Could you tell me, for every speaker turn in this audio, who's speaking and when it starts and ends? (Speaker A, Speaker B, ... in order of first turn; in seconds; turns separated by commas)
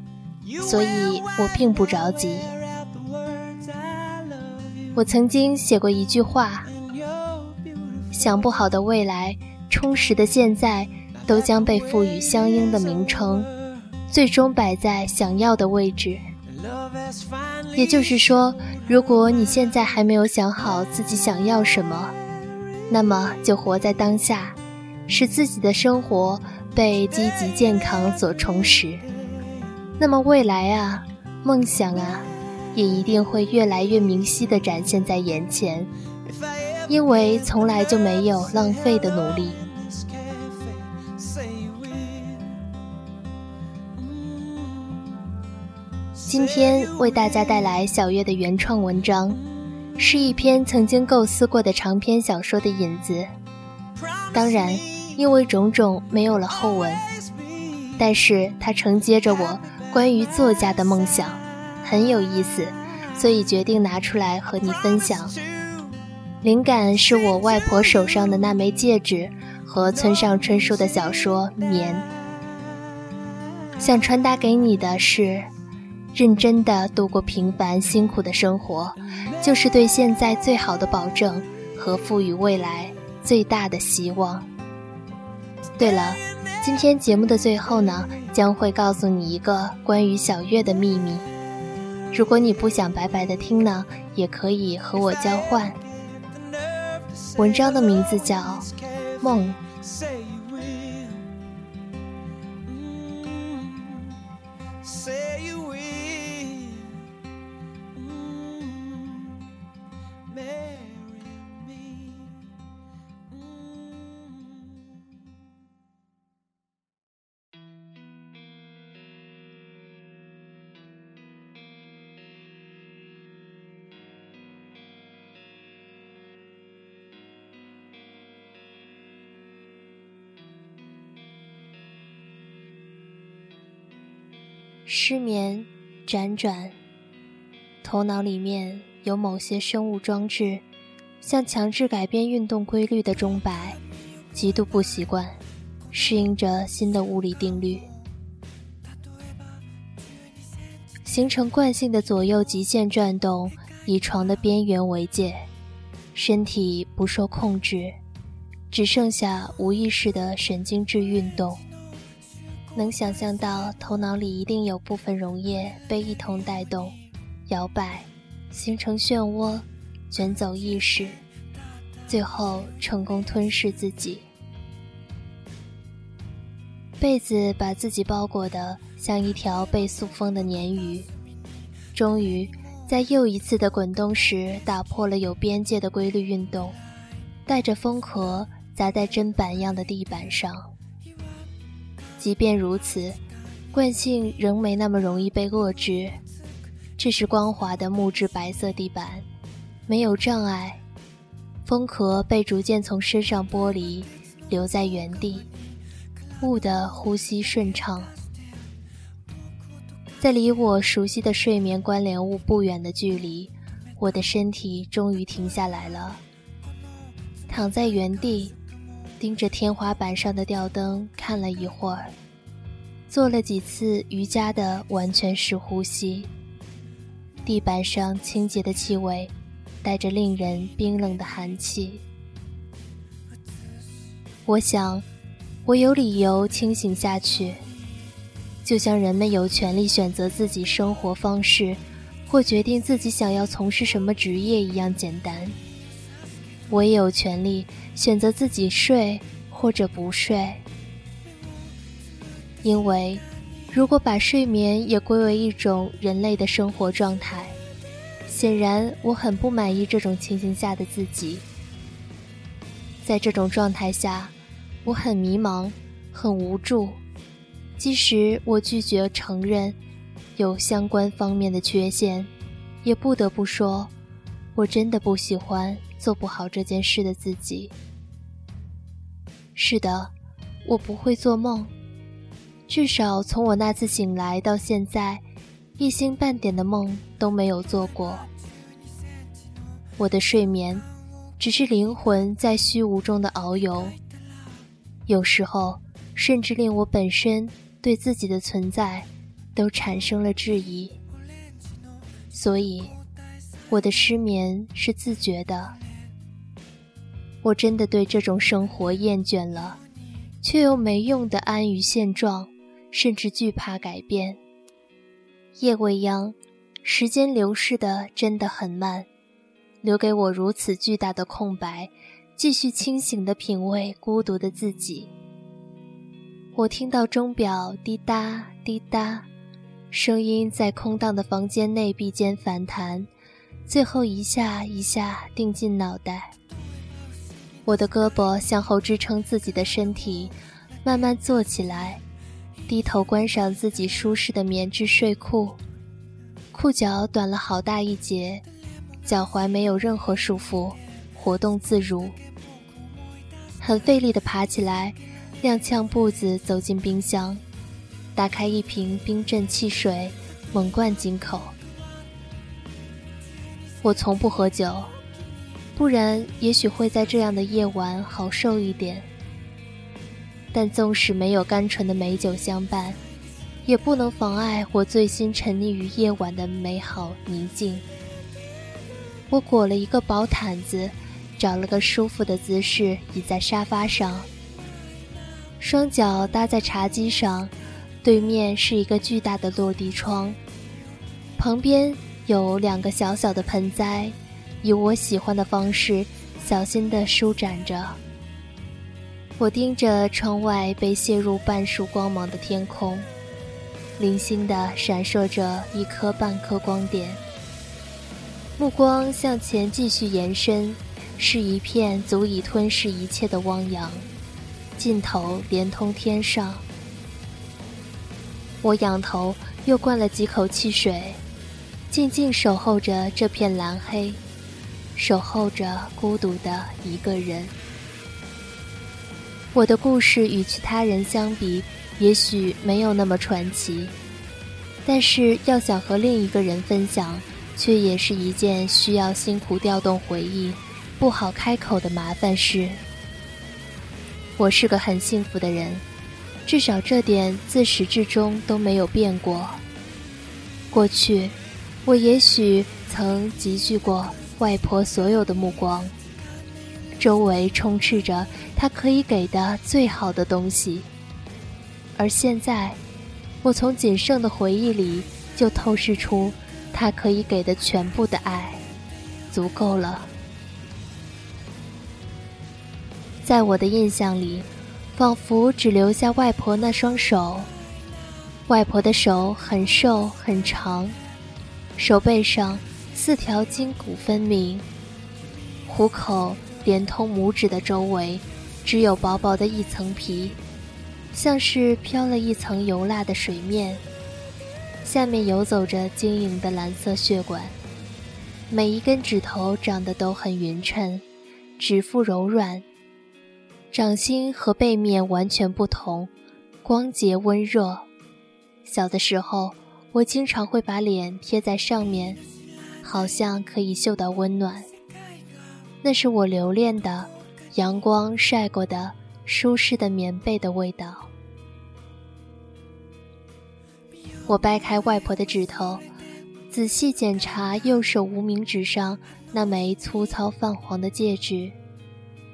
Speaker A: 0.6-2.5, Speaker A: 4.9-6.7, Speaker A: 8.1-13.5, Speaker A: 14.1-16.2, Speaker A: 17.7-22.1, Speaker A: 22.9-29.0, Speaker A: 30.0-35.9, Speaker A: 36.9-39.6, Speaker A: 46.2-49.4, Speaker A: 50.0-53.3, Speaker A: 54.3-57.0, Speaker A: 58.0-65.4, Speaker A: 66.4-72.1, Speaker A: 73.8-75.5, Speaker A: 76.1-84.5, Speaker A: 85.8-91.3, Speaker A: 92.1-95.8, Speaker A: 97.3-99.6, Speaker A: 134.8-136.7, Speaker A: 137.8-140.6, Speaker A: 141.2-143.8, Speaker A: 144.3-145.4, Speaker A: 145.9-147.9, Speaker A: 151.0-155.5, Speaker A: 156.1-158.0, Speaker A: 158.7-161.6, Speaker A: 162.7-166.9, Speaker A: 167.5-171.2, Speaker A: 172.1-174.3, Speaker A: 177.0-181.1, Speaker A: 181.9-186.8, Speaker A: 187.5-190.7, Speaker A: 192.2-193.2, Speaker A: 193.7-196.2, Speaker A: 197.0-199.2, Speaker A: 199.9-200.8, Speaker A: 201.7-205.5, Speaker A: 206.4-208.1, Speaker A: 210.2-216.2, Speaker A: 217.5-218.6, Speaker A: 219.2-222.1, Speaker A: 223.1-226.3, Speaker A: 227.4-232.0, Speaker A: 234.4-235.1, Speaker A: 235.6-237.6, Speaker A: 238.6-245.6, Speaker A: 246.7-250.6, Speaker A: 252.6-257.6, Speaker A: 258.3-261.4, Speaker A: 263.0-264.3, Speaker A: 264.8-267.0, Speaker A: 267.8-269.8, Speaker A: 270.4-272.3, Speaker A: 272.8-273.9, Speaker A: 274.5-277.7, Speaker A: 279.5-280.1, Speaker A: 280.6-281.7, Speaker A: 282.7-285.2, Speaker A: 285.8-288.3, Speaker A: 290.0-290.8, Speaker A: 291.4-293.9, Speaker A: 295.1-301.0, Speaker A: 302.3-302.9, Speaker A: 303.7-305.8, Speaker A: 307.4-309.8, Speaker A: 310.4-314.4, Speaker A: 315.6-319.1, Speaker A: 319.8-325.1, Speaker A: 326.5-329.3, Speaker A: 329.9-333.1, Speaker A: 333.7-336.3, Speaker A: 337.6-342.0, Speaker A: 342.7-345.6, Speaker A: 346.5-348.4, Speaker A: 349.0-352.2, Speaker A: 353.6-357.4, Speaker A: 358.1-361.5, Speaker A: 363.8-364.9, Speaker A: 365.8-369.1, Speaker A: 370.5-373.0, Speaker A: 373.6-377.8, Speaker A: 379.3-384.3, Speaker A: 385.6-390.4, Speaker A: 391.4-398.0, Speaker A: 399.4-403.1, Speaker A: 404.0-407.2, Speaker A: 408.6-414.1, Speaker A: 414.8-416.6, Speaker A: 418.6-421.2, Speaker A: 421.9-424.2, Speaker A: 424.9-427.5, Speaker A: 429.5-433.9, Speaker A: 434.8-442.8, Speaker A: 444.4-445.8, Speaker A: 446.4-449.6, Speaker A: 450.7-455.9, Speaker A: 457.0-460.9, Speaker A: 461.9-462.8, Speaker A: 463.4-468.6, Speaker A: 469.3-470.1, Speaker A: 473.2-477.5, Speaker A: 478.5-480.9, Speaker A: 481.8-484.6, Speaker A: 485.6-490.4, Speaker A: 491.1-493.8, Speaker A: 494.8-497.5, Speaker A: 498.5-501.0, Speaker A: 501.6-502.6, Speaker A: 503.7-506.1, Speaker A: 506.6-507.9, Speaker A: 508.6-512.2, Speaker A: 512.8-514.7, Speaker A: 515.8-521.1, Speaker A: 524.2-525.8, Speaker A: 526.5-531.6